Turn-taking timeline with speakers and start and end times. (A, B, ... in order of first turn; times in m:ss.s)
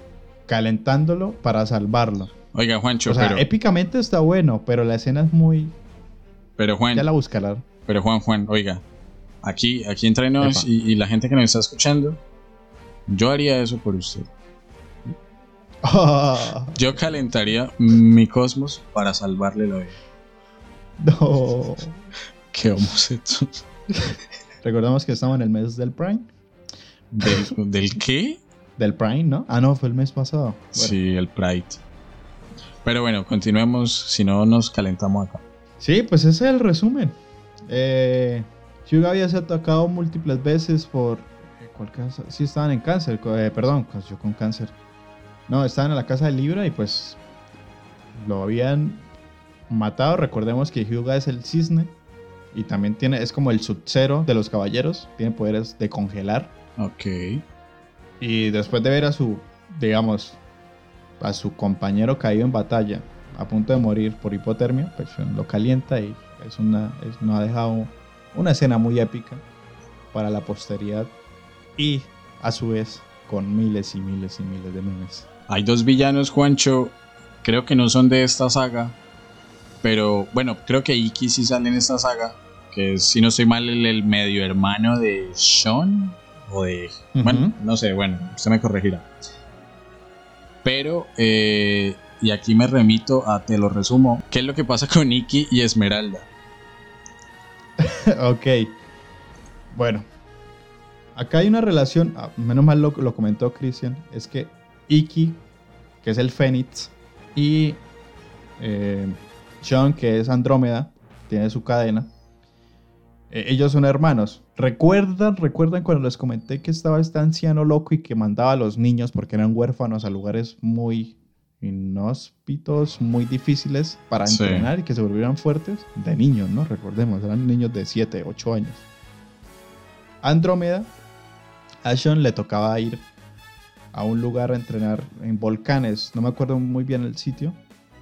0:00.5-0:02.3 A
0:02.5-0:03.4 B
0:03.1-0:05.7 A
0:06.6-0:07.1 B
0:06.9-0:07.6 A
0:07.9-0:08.8 B
0:09.4-0:12.2 B
0:10.4-0:10.7 A
0:13.1-0:14.3 B
0:15.8-0:17.2 A
0:16.7-0:19.9 B
0:21.0-0:22.0 A
0:22.5-0:23.6 B
0:23.9-0:26.3 A
0:27.1-0:28.4 B
0:28.8-0:31.0 A
0:30.7-0:31.8 B
0:32.8-0:35.4 B
0:35.8-0:44.7 A
0:45.5-0:47.2 A
0:48.1-0:49.0 A
0:49.7-0:51.9 A
0:52.5-0:56.5 A
0:56.8-0:57.4 B
0:58.2-1:00.4 A
1:01.2-1:09.4 A
1:10.1-1:11.1 A
1:11.8-1:15.3 A
1:15.5-1:19.0 B
1:19.8-1:29.1 B
1:27.1-1:27.6 A
1:30.6-1:36.3 B
1:37.8-1:38.7 A
1:39.7-1:40.1 A
1:41.1-1:45.4 A
1:46.0-1:47.8 A
1:48.6-1:52.1 A
1:53.3-2:08.8 A
2:04.2-2:04.7 B
2:10.2-2:10.9 A
2:11.8-2:13.0 A
2:13.9-2:17.6 A